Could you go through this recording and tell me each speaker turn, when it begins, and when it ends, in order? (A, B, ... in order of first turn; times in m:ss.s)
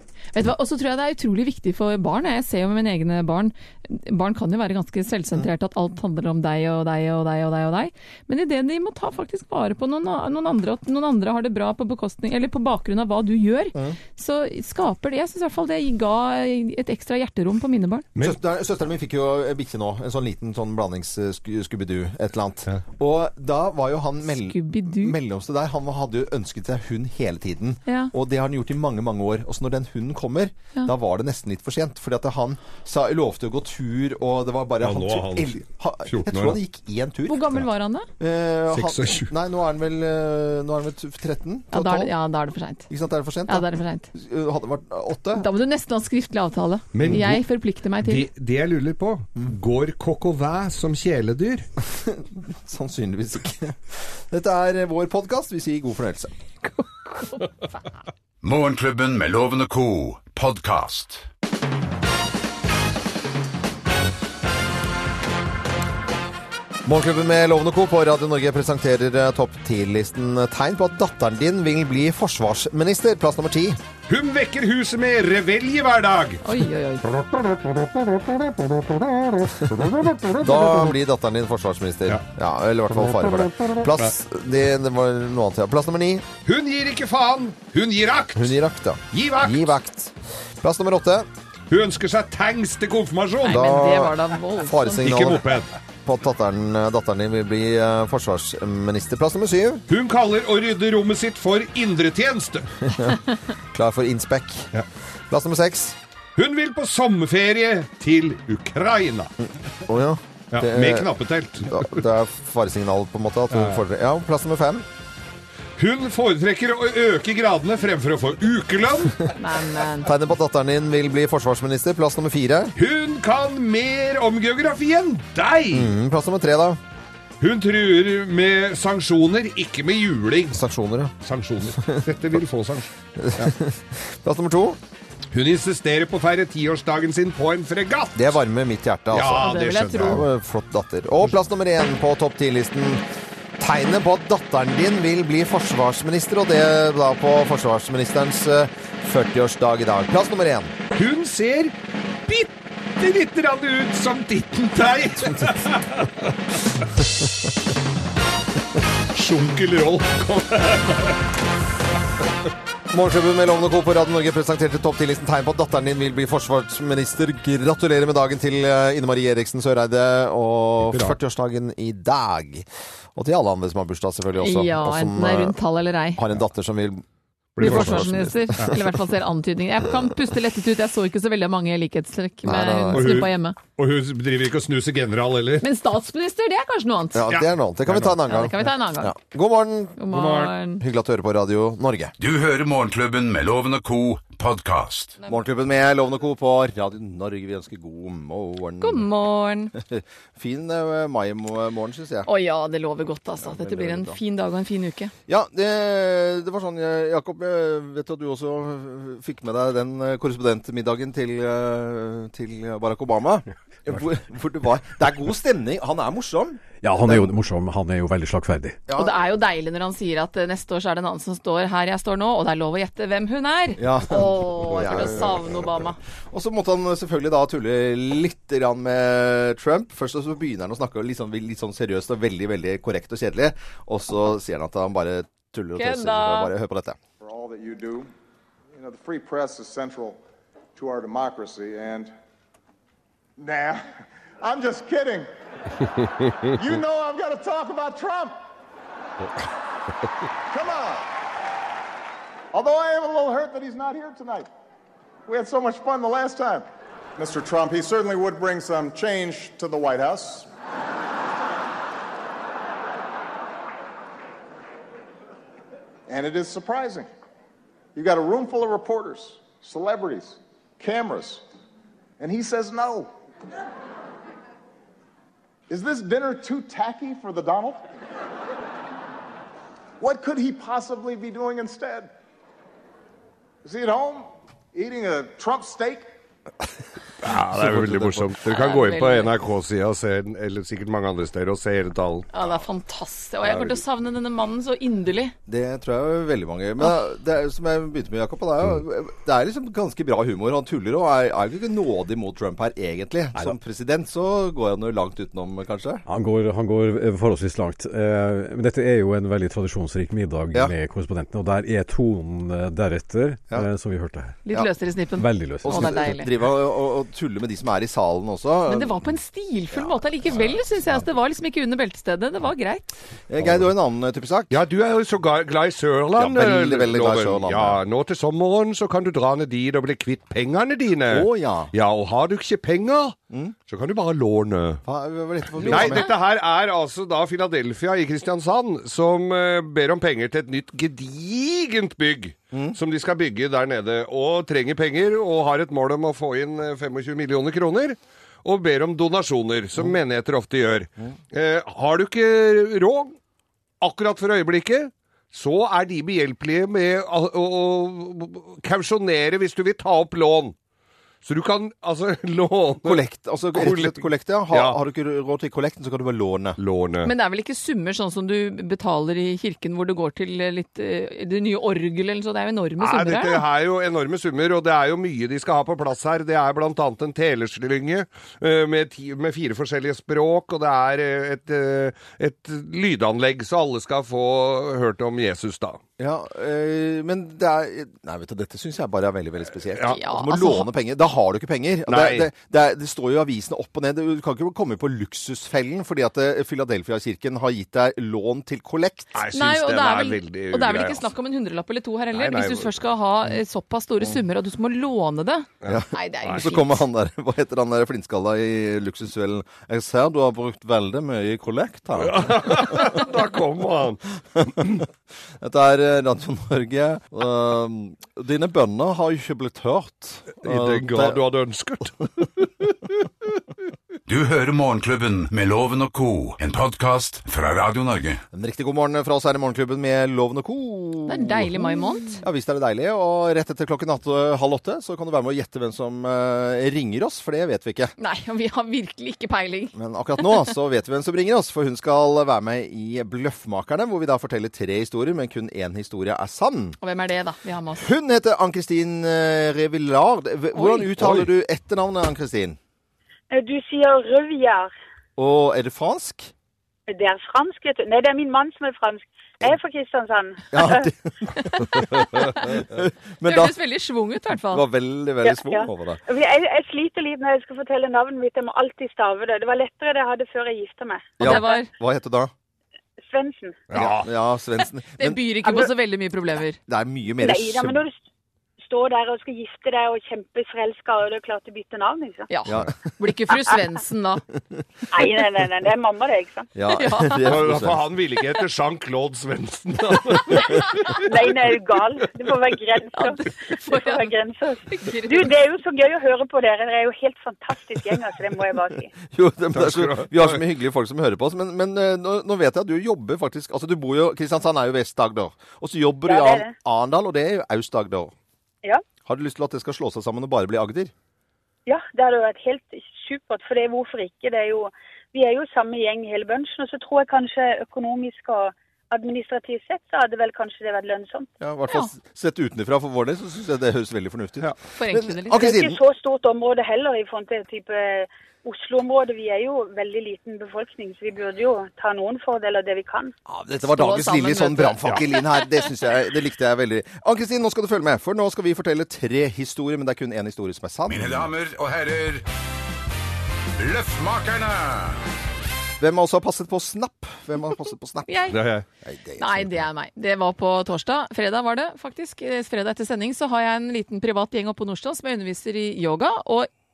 0:00.4-0:18.0 A
0:18.2-0:37.5 B
0:24.5-0:25.2 A
0:27.9-0:28.1 A
0:34.8-0:35.6 C
0:36.1-0:36.6 C
0:37.3-0:38.1 A
0:38.2-0:42.1 B
0:38.7-0:39.3 C
0:41.7-0:42.9 A
0:42.9-0:45.5 B
0:43.5-0:44.1 A
0:45.4-0:48.3 A
0:46.9-0:47.4 C
0:48.0-0:51.7 C
0:51.9-0:56.3 B
0:57.1-0:57.4 A
0:58.4-1:01.2 D
1:06.8-1:13.8 B
1:14.1-1:16.4 C
1:16.4-1:17.0 A
1:19.4-1:26.3 B
1:19.7-1:20.8 C
1:26.4-1:28.6 C
1:28.4-1:31.3 B
1:29.1-1:29.7 C
1:31.7-1:33.6 C
1:33.4-1:35.2 A
1:33.4-1:35.5 B
1:35.0-1:35.7 C
1:36.0-1:39.9 B
1:39.9-1:42.9 C
1:42.9-1:44.7 B
1:45.3-1:46.0 B
1:46.4-1:49.3 C
1:49.9-1:51.1 B
1:50.5-1:52.0 C
1:51.6-1:54.9 B
1:53.5-1:53.8 C
1:55.8-1:59.3 C
1:59.4-2:00.1 A
2:00.0-2:02.8 B
2:02.8-2:05.9 C
2:05.7-2:06.8 B
2:07.4-2:10.6 C
2:10.5-2:11.1 B
2:11.2-2:13.5 C
2:11.8-2:12.0 B
2:13.2-2:14.8 B
2:15.3-2:18.4 C
2:18.2-2:23.0 B
2:19.1-2:20.3 C
2:19.4-2:20.2 A
2:23.6-2:30.7 B
2:30.9-2:31.7 C
2:32.3-2:36.3 C
2:39.1-2:41.2 C
2:42.9-2:55.6 B
2:50.9-2:51.2 C
2:54.4-2:56.2 A
2:56.2-2:57.0 B
2:57.6-2:58.7 C
2:57.6-2:58.9 B
2:57.6-3:03.6 A
3:02.4-3:03.3 B
3:02.9-3:05.6 C
3:05.6-3:07.2 A
3:07.1-3:10.0 B
3:07.3-3:08.1 C
3:08.3-3:09.2 A
3:10.0-3:10.8 A
3:10.1-3:10.5 C
3:10.8-3:12.1 B
3:12.2-3:15.2 D
3:15.2-3:19.1 B
3:18.8-3:19.7 A
3:19.8-3:22.3 B
3:22.3-3:25.1 A
3:23.4-3:24.2 B
3:25.3-3:37.3 B
3:36.8-3:38.8 E
3:38.9-3:39.2 B
3:39.0-3:46.0 A
3:43.8-3:45.8 B
3:46.3-3:57.0 B
3:55.8-3:56.5 A
3:57.2-3:58.1 F
3:58.7-4:00.2 F
4:00.8-4:02.1 F
4:03.4-4:03.9 F
4:04.4-4:05.3 F
4:06.5-4:08.4 F
4:10.5-4:11.1 F
4:12.5-4:14.5 F
4:15.3-4:16.6 F
4:17.2-4:20.5 F
4:26.1-4:27.1 F
4:28.0-4:31.4 F
4:32.2-4:33.1 F
4:35.7-4:37.8 F
4:40.0-4:42.1 F
4:43.6-4:46.1 F
4:47.2-4:52.3 C
4:47.3-4:48.3 B
4:48.5-4:49.3 A
4:52.3-4:55.4 A
4:53.4-4:53.8 C
4:55.5-5:06.0 B
5:06.1-5:14.4 E
5:14.5-5:16.3 A
5:15.2-5:16.1 E
5:15.6-5:19.0 B
5:18.7-5:22.9 A
5:19.7-5:20.0 B
5:23.3-5:24.6 B
5:24.5-5:33.2 C
5:26.2-5:27.8 B
5:31.1-5:31.7 B
5:33.3-5:33.6 B
5:33.7-5:34.8 C
5:34.8-5:36.1 B
5:35.6-5:53.2 C
5:35.7-5:36.1 A
5:42.5-5:42.8 B
5:53.8-6:00.6 C
6:01.2-6:03.0 C
6:02.8-6:06.6 B
6:03.6-6:04.8 C
6:06.6-6:07.1 C
6:07.0-6:13.4 A
6:12.8-6:25.8 C
6:26.0-6:39.2 B
6:29.9-6:30.7 A
6:31.9-6:32.3 C
6:39.1-6:41.1 C
6:39.3-6:46.8 A
6:42.1-6:42.8 C
6:45.6-6:46.5 C
6:45.6-6:53.1 B
6:52.0-6:54.8 C
6:54.4-6:54.7 B
6:55.4-7:01.2 B
7:00.4-7:02.7 C
7:04.1-7:08.2 D
7:08.3-7:17.9 B
7:11.1-7:12.2 A
7:18.0-7:20.4 A
7:19.7-7:26.8 B
7:26.8-7:27.9 A
7:27.7-7:32.6 B
7:30.5-7:30.9 A
7:31.0-7:31.3 C
7:33.3-7:34.7 G
7:35.2-7:36.3 B
7:36.9-7:40.9 G
7:40.5-7:43.6 B
7:41.4-7:42.5 A
7:43.2-7:44.7 A
7:44.5-7:46.0 B
7:45.2-7:51.5 G
7:51.2-7:52.3 B
7:51.2-7:51.7 A
7:53.0-7:53.6 G
7:53.7-7:54.1 C
7:53.7-7:55.7 B
7:55.0-7:56.6 A
7:56.7-7:57.8 B
7:57.2-7:58.0 G
7:58.6-8:02.3 G
8:02.3-8:04.2 A
8:02.5-8:02.9 B
8:04.9-8:06.5 G
8:06.6-8:07.9 B
8:06.7-8:07.4 A
8:07.2-8:11.0 C
8:10.9-8:18.9 G
8:12.9-8:14.1 A
8:14.6-8:15.3 A
8:19.1-8:28.1 B
8:19.5-8:20.4 C
8:26.1-8:26.5 G
8:29.1-8:30.9 B
8:31.7-8:41.3 G
8:41.4-8:45.8 B
8:41.7-8:41.9 A
8:44.7-8:45.5 A
8:45.3-8:53.1 G
8:53.3-9:01.3 B
8:53.6-8:55.2 A
9:00.9-9:02.2 D
9:03.6-9:05.0 D
9:05.8-9:09.7 B
9:08.1-9:08.4 A
9:08.3-9:08.6 C
9:09.2-9:16.5 A